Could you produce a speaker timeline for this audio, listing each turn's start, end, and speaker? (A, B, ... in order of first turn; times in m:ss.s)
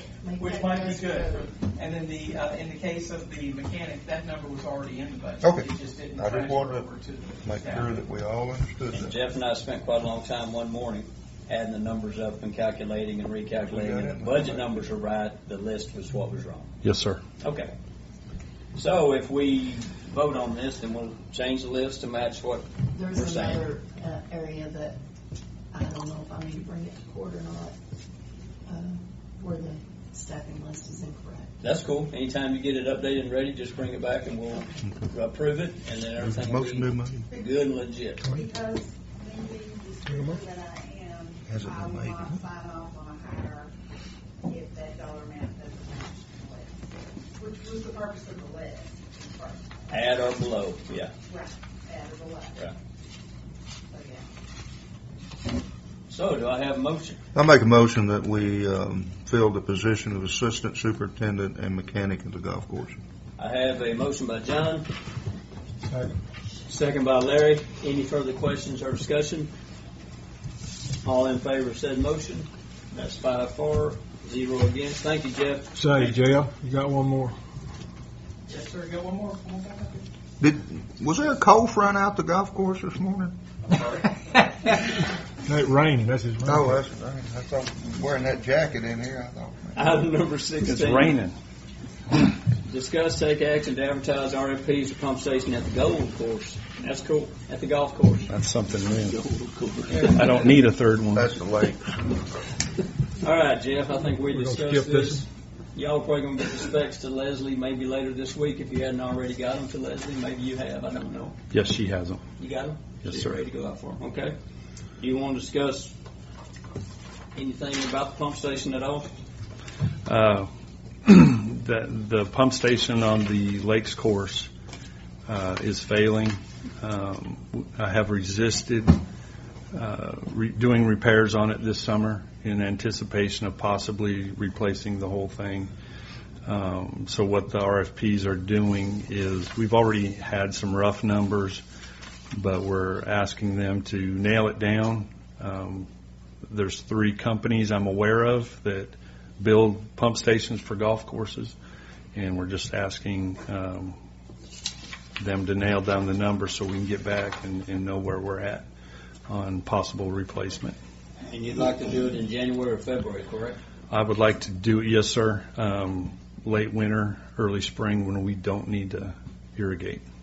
0:00.2-0:01.4 A
0:00.4-0:08.0 B
0:05.4-0:06.9 C
0:07.4-0:09.2 C
0:08.9-0:16.7 D
0:13.6-0:14.9 C
0:16.8-0:17.2 E
0:17.4-0:17.7 D
0:18.8-0:23.7 D
0:22.9-0:25.0 A
0:25.7-0:27.8 A
0:28.7-0:31.5 A
0:31.6-0:38.3 D
0:36.2-0:37.3 C
0:38.2-0:43.7 F
0:40.1-0:40.4 G
0:41.5-0:42.4 C
0:44.4-0:50.0 F
0:49.9-0:51.1 D
0:51.3-0:52.7 F
0:53.9-0:54.3 F
0:56.1-0:57.2 D
0:57.4-1:03.0 C
1:03.4-1:04.9 D
1:05.8-1:06.2 G
1:06.7-1:09.5 D
1:11.0-1:16.1 D
1:15.8-1:17.4 G
1:18.5-1:20.1 B
1:20.4-1:23.3 C
1:23.7-1:24.1 B
1:25.4-1:26.8 G
1:26.5-1:30.0 C
1:29.8-1:31.2 D
1:30.6-1:31.4 E
1:32.6-1:38.3 D
1:38.3-1:39.3 E
1:39.3-1:40.5 D
1:40.0-1:41.4 E
1:41.2-1:42.2 C
1:43.2-1:51.4 D
1:44.3-1:45.2 G
1:51.5-1:52.2 E
1:52.4-1:54.4 D
1:53.0-1:53.3 E
1:55.0-1:55.9 D
1:57.4-1:59.1 D
2:00.0-2:00.5 E
2:01.0-2:04.5 E
2:05.3-2:09.0 E
2:09.7-2:15.7 E
2:16.4-2:21.6 E
2:22.4-2:25.9 E
2:26.5-2:31.6 E
2:32.1-2:34.0 E
2:35.2-2:38.7 E
2:39.3-2:40.8 E
2:41.2-2:43.6 D
2:43.9-2:50.0 E